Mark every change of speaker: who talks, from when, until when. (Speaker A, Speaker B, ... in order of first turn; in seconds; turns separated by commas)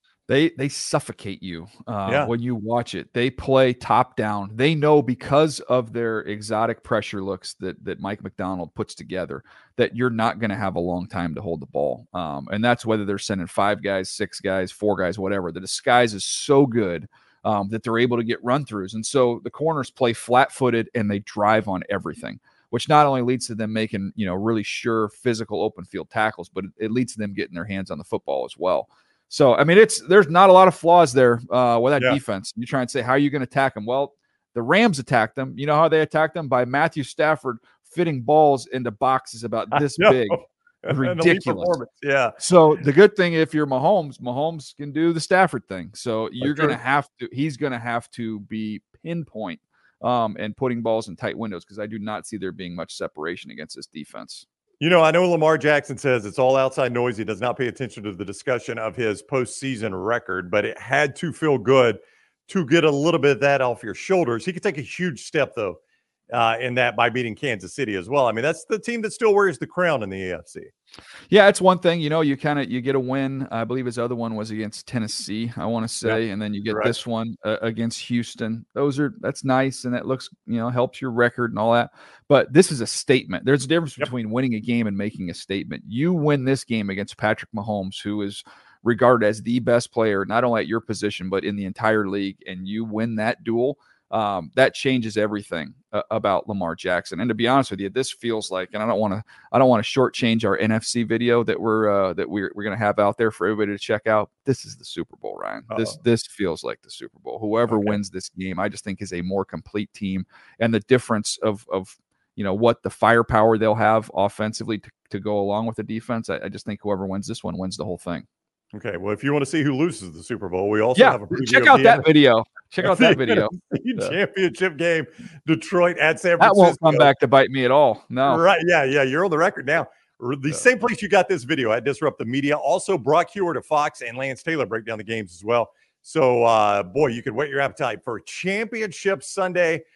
Speaker A: 0.3-41.8, Speaker B: 2.1-2.3, Speaker B: 39.7-42.4, Speaker A: 42.4-54.5, Speaker B: 46.4-46.8, Speaker B: 54.8-65.8, Speaker B: 66.3-70.7, Speaker A: 71.3-118.3, Speaker B: 76.0-77.0, Speaker B: 105.7-106.0, Speaker B: 107.7-108.0, Speaker B: 118.7-122.1, Speaker A: 121.0-124.2, Speaker B: 122.8-127.1, Speaker A: 126.4-128.4, Speaker B: 128.2-139.8